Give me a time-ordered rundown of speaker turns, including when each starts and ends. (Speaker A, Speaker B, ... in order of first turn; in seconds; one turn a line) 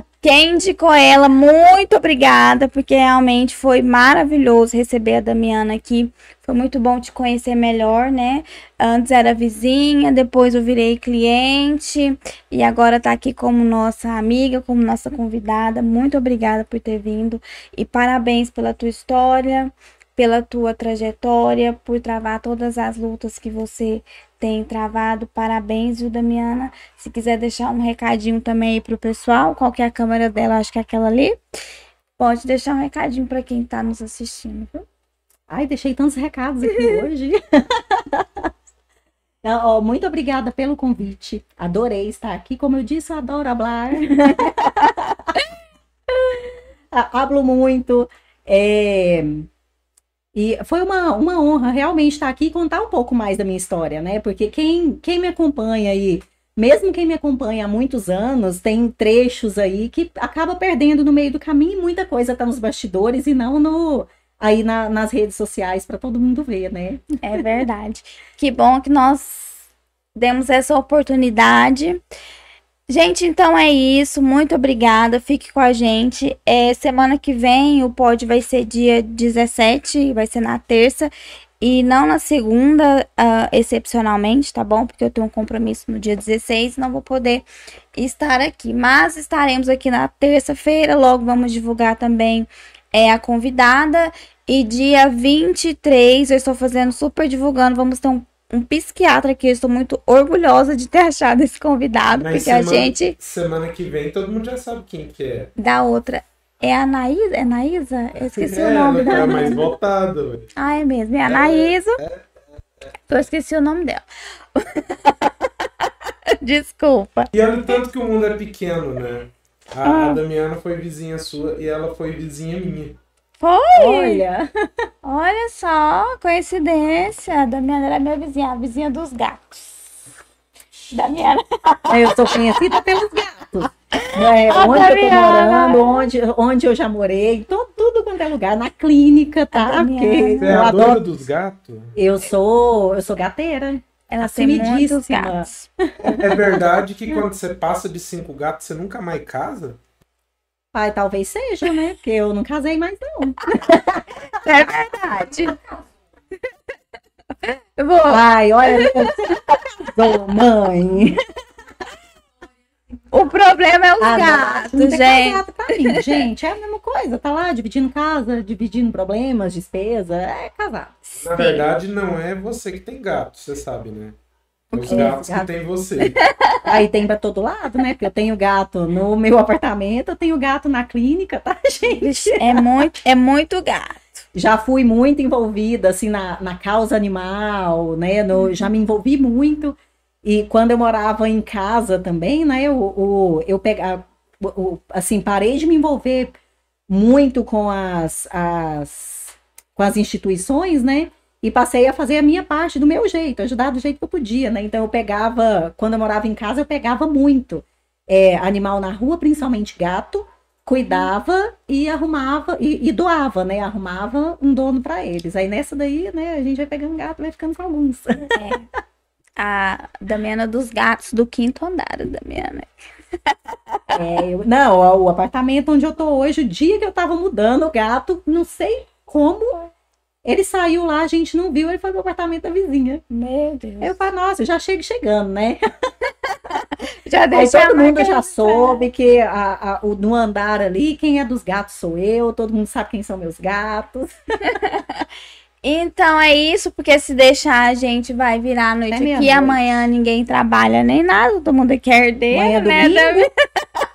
Speaker A: 0.2-31.4
Speaker A: 32.2-34.8
Speaker B: 35.5-38.5
Speaker A: 36.7-37.0
Speaker B: 39.4-45.3
Speaker B: 46.9-49.5
Speaker B: 50.3-67.0
Speaker A: 67.2-72.0
Speaker A: 72.9-87.4
Speaker A: 87.9-103.2
Speaker C: 102.2-105.5
Speaker A: 105.6-109.7
Speaker C: 108.3-110.5
Speaker B: 109.0-109.6
Speaker A: 110.6-112.0
Speaker C: 111.2-112.2
Speaker A: 113.1-114.0
Speaker A: 114.5-115.3
Speaker A: 116.3-117.3
Speaker C: 117.3-123.0
Speaker A: 119.8-120.2
Speaker A: 123.4-124.2
Speaker B: 123.7-124.5
Speaker A: 125.0-129.9
Speaker A: 130.9-132.7
Speaker B: 131.9-141.0
Speaker A: 133.9-136.0
Speaker A: 139.5-140.6
Speaker C: 140.4-141.9
Speaker B: 141.9-146.6
Speaker A: 144.1-145.7
Speaker C: 146.0-149.8
Speaker B: 150.7-154.0
Speaker A: 153.5-155.5
Speaker A: 157.5-159.9
Speaker B: 158.1-161.2
Speaker A: 163.1-166.1
Speaker B: 164.0-171.0
Speaker C: 171.2-174.2
Speaker C: 174.7-176.2
Speaker B: 174.7-176.1
Speaker A: 174.9-175.2
Speaker A: 176.2-176.7
Speaker B: 176.6-182.6
Speaker A: 182.0-184.0
Speaker B: 184.3-196.4
Speaker B: 196.9-218.4
Speaker A: 218.3-218.7
Speaker A: 219.4-222.7
Speaker A: 223.2-224.0
Speaker B: 223.9-229.6
Speaker B: 230.2-233.0
Speaker A: 233.1-234.0
Speaker B: 233.8-235.6
Speaker A: 237.0-238.8
Speaker B: 237.3-244.1
Speaker A: 244.5-244.8
Speaker A: 245.6-253.3
Speaker B: 248.9-249.8
Speaker B: 252.3-253.3